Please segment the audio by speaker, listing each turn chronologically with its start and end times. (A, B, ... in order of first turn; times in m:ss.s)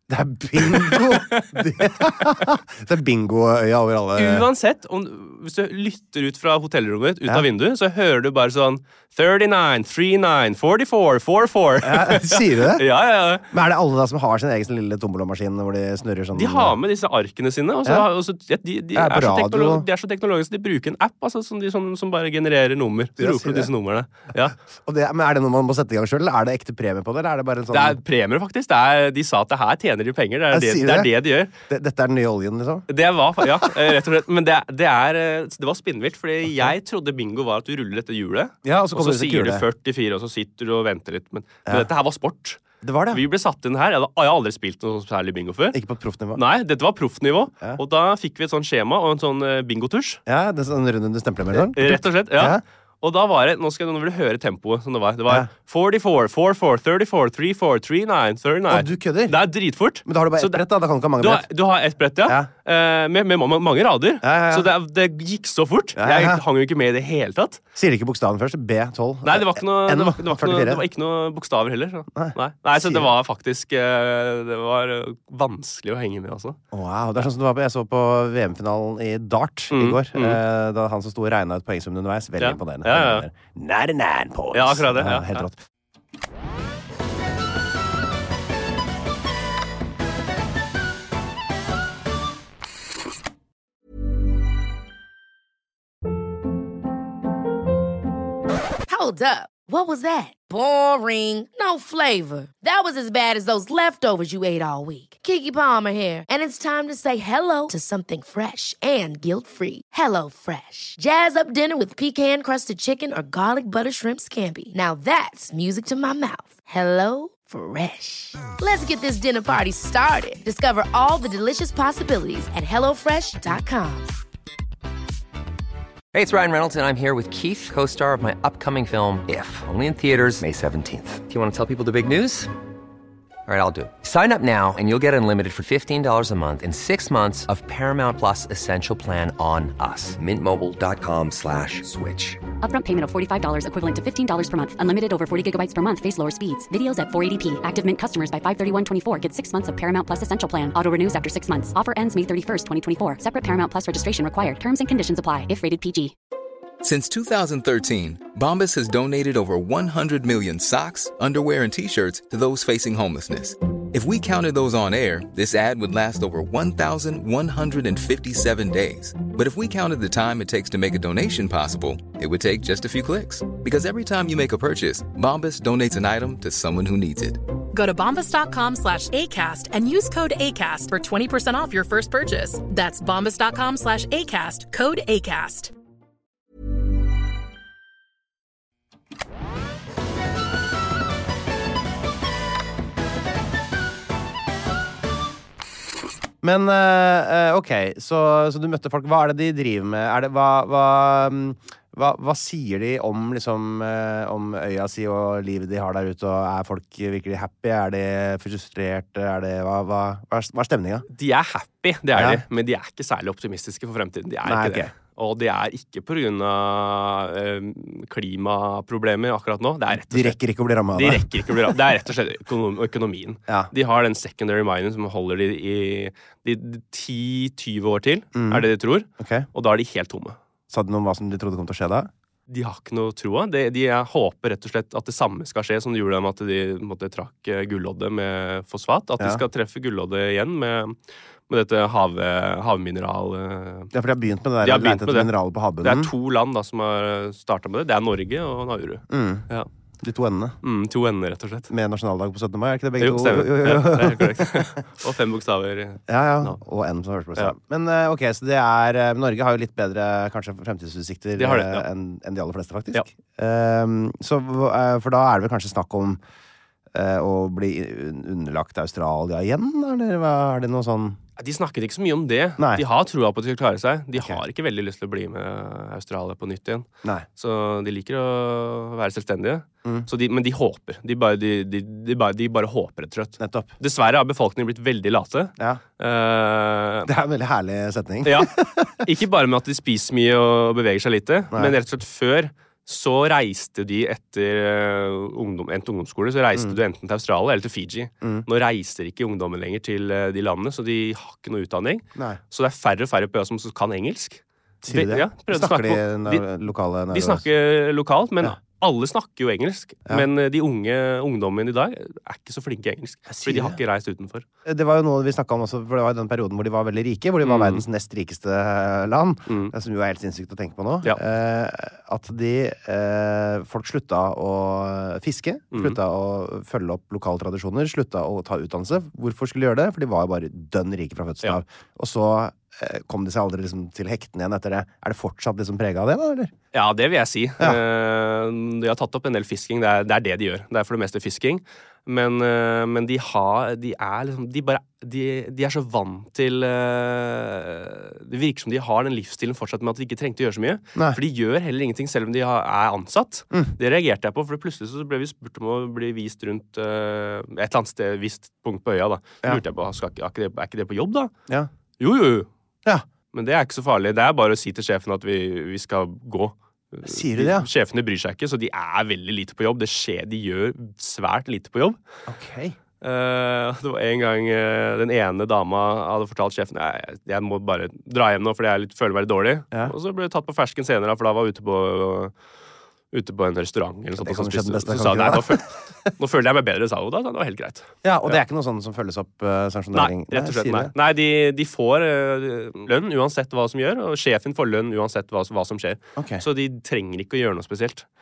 0:00.1-0:04.5 A
0:00.6-0:01.7 B
0:04.2-0:13.5 B
0:11.8-0:12.8 A
0:13.5-0:16.8 A
0:16.3-0:24.6 B
0:18.9-0:19.9 A
0:23.2-0:23.7 A
0:24.8-0:28.0 A
0:27.7-0:31.5 B
0:30.5-0:31.1 A
0:31.7-0:32.9 A
0:32.9-0:45.8 B
0:33.4-0:33.8 A
0:38.6-0:39.6 A
0:42.8-0:43.2 A
0:45.7-0:46.4 A
0:46.4-0:50.2 B
0:50.3-0:52.6 A
0:51.7-1:00.6 B
0:58.7-0:59.4 A
1:00.0-1:01.5 A
1:01.2-1:07.6 B
1:04.2-1:04.7 A
1:06.0-1:06.4 A
1:07.8-1:10.8 A
1:09.2-1:16.6 B
1:12.2-1:13.1 A
1:16.7-1:25.6 A
1:19.7-1:20.4 B
1:22.4-1:23.3 B
1:24.5-1:25.5 B
1:38.9-2:04.1 C
2:06.1-2:12.5 D
2:13.5-2:22.4 D
2:22.6-2:36.2 E
2:36.8-2:57.4 F
2:57.7-3:05.7 G
3:16.4-3:31.1 A
3:31.1-3:40.4 B
3:32.1-3:32.4 A
3:34.4-3:34.9 A
3:39.9-3:41.8 A
3:40.9-3:50.4 B
3:48.4-3:48.7 A
3:49.2-3:49.5 A
3:50.7-3:52.1 A
3:52.5-4:01.0 B
4:01.5-4:03.9 B
4:03.9-4:06.1 A
4:04.6-4:09.7 B
4:09.1-4:09.5 A
4:10.0-4:10.6 A
4:10.6-4:11.7 B
4:11.7-4:14.7 A
4:13.0-4:16.6 B
4:16.1-4:26.2 A
4:21.4-4:21.9 B
4:26.9-4:31.2 A
4:31.4-4:47.1 B
4:32.6-4:32.8 A
4:34.2-4:34.4 A
4:43.4-4:43.7 A
4:47.1-4:49.1 A
4:48.2-5:06.5 B
5:02.2-5:02.4 A
5:04.8-5:07.4 A
5:07.1-5:14.4 B
5:13.3-5:13.8 A
5:14.6-5:36.5 A
5:17.4-5:17.8 B
5:19.5-5:19.7 B
5:25.7-5:26.0 B
5:36.7-6:01.3 B
6:02.0-6:02.5 B
6:03.3-6:12.0 B
6:07.1-6:07.7 A
6:12.3-6:12.8 A
6:13.0-6:22.3 B
6:23.1-6:28.4 B
6:24.2-6:26.1 A
6:28.0-6:30.9 A
6:29.9-6:38.1 B
6:36.2-6:36.4 A